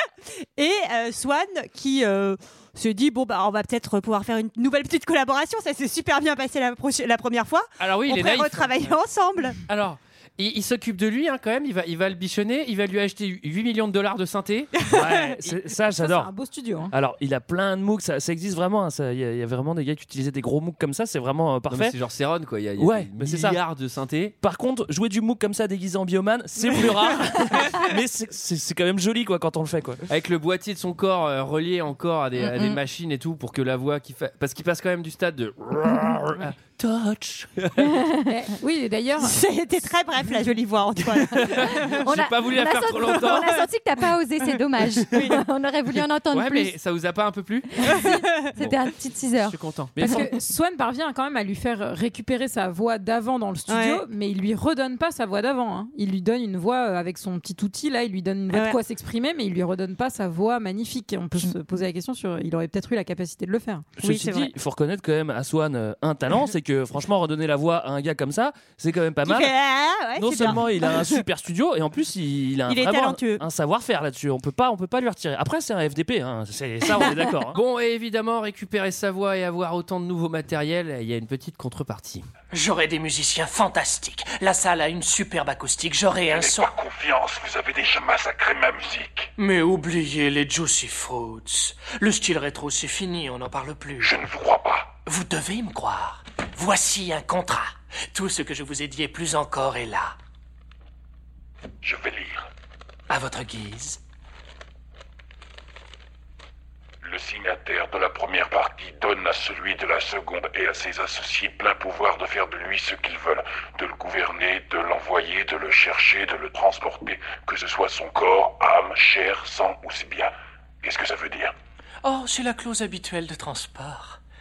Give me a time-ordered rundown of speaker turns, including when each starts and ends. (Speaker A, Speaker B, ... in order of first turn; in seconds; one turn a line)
Speaker A: 0.6-9.6
Speaker B: 7.8-9.0
Speaker B: 9.7-14.8
Speaker C: 14.8-16.3
Speaker D: 15.9-16.9
Speaker C: 16.9-22.0
Speaker B: 21.7-24.4
Speaker C: 22.8-23.6
Speaker C: 24.4-30.0
Speaker B: 30.1-38.0
Speaker E: 32.4-32.8
Speaker D: 38.3-39.4
Speaker A: 39.2-41.8
Speaker B: 41.3-43.6
Speaker E: 41.9-46.8
Speaker A: 45.1-45.4
Speaker B: 46.3-48.0
Speaker E: 47.9-50.3
Speaker B: 49.4-50.1
Speaker D: 50.0-63.9
Speaker A: 53.7-54.0
Speaker A: 58.5-58.8
Speaker C: 64.0-69.5
Speaker A: 64.0-64.5
Speaker A: 69.2-71.2
Speaker C: 70.2-77.6
Speaker A: 72.7-73.4
Speaker B: 77.5-82.3
Speaker F: 82.5-86.7
Speaker G: 86.3-89.3
Speaker F: 89.4-94.2
Speaker G: 94.0-94.9
Speaker F: 95.1-100.2
Speaker G: 101.8-102.5
Speaker F: 103.1-104.0
Speaker G: 107.0-121.5
Speaker F: 122.0-124.2